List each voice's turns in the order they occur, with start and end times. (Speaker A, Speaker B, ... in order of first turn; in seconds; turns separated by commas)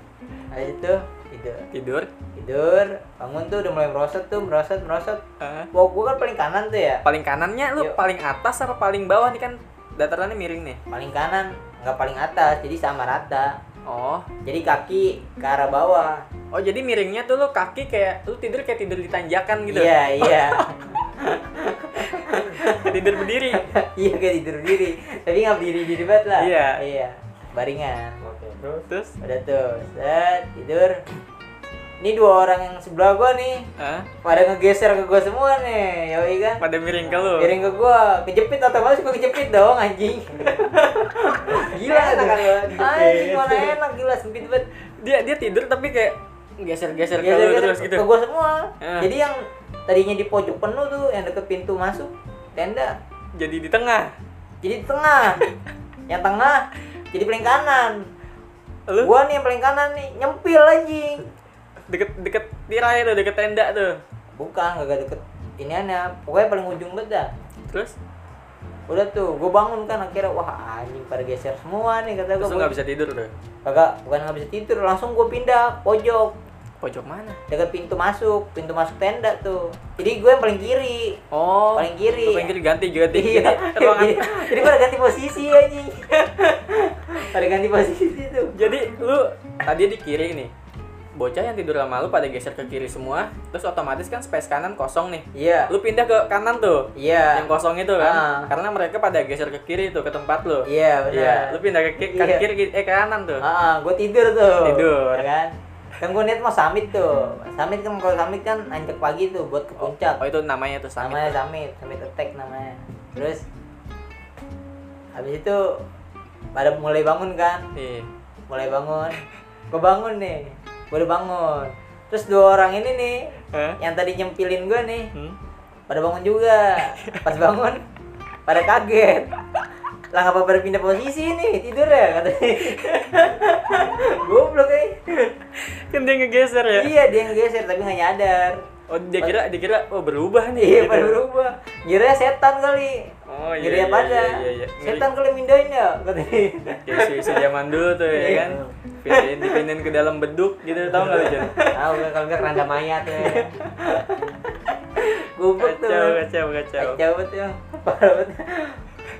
Speaker A: 0.5-1.7, Speaker B: 1.7-2.1, Speaker A: 2.3-5.2, Speaker B: 5.4-5.7, Speaker A: 5.7-7.0, Speaker B: 7.0-10.8, Speaker A: 10.9-13.6, Speaker B: 13.8-14.3, Speaker A: 14.4-16.2, Speaker B: 16.5-20.7, Speaker A: 19.7-23.0, Speaker B: 22.0-23.6, Speaker A: 23.5-28.2, Speaker B: 26.4-26.8, Speaker C: 28.2-28.9, Speaker B: 28.9-29.1, Speaker A: 29.2-31.0, Speaker A: 32.0-33.7, Speaker B: 33.8-34.1, Speaker A: 34.2-36.6, Speaker B: 36.6-37.5, Speaker C: 37.0-37.6, Speaker A: 37.4-44.6, Speaker C: 41.5-43.8, Speaker B: 45.0-48.0, Speaker A: 47.2-53.0, Speaker B: 48.8-49.1, Speaker B: 53.3-54.1, Speaker A: 54.6-55.4, Speaker A: 56.1-58.1, Speaker B: 58.9-59.1, Speaker A: 59.0-61.2, Speaker B: 61.9-64.0, Speaker A: 64.4-67.3, Speaker B: 67.7-67.9, Speaker A: 68.9-72.7, Speaker B: 72.4-73.3, Speaker A: 73.6-76.3, Speaker B: 76.8-77.4, Speaker A: 77.5-81.2, Speaker B: 81.3-84.8, Speaker A: 81.7-82.5, Speaker A: 83.1-88.6, Speaker B: 88.5-90.5, Speaker B: 91.2-103.4, Speaker A: 95.3-95.7, Speaker A: 97.0-98.5, Speaker A: 100.7-102.4, Speaker A: 103.4-110.2, Speaker B: 104.6-105.3, Speaker B: 109.8-111.4, Speaker A: 111.0-113.4, Speaker A: 115.1-115.8, Speaker A: 116.5-117.7, Speaker B: 117.8-118.1, Speaker A: 118.5-123.2, Speaker B: 123.5-123.8, Speaker A: 123.8-125.1, Speaker A: 125.9-127.8, Speaker A: 128.5-129.3, Speaker A: 130.1-135.3, Speaker B: 135.5-136.9, Speaker A: 136.7-138.6, Speaker B: 138.9-141.2, Speaker A: 140.6-147.4, Speaker B: 143.2-145.1, Speaker B: 146.8-151.5, Speaker A: 148.1-148.5, Speaker C: 148.3-148.7, Speaker A: 149.1-149.6, Speaker C: 150.9-153.5, Speaker A: 151.3-154.2, Speaker A: 154.9-156.2, Speaker B: 155.6-157.0, Speaker A: 156.8-158.8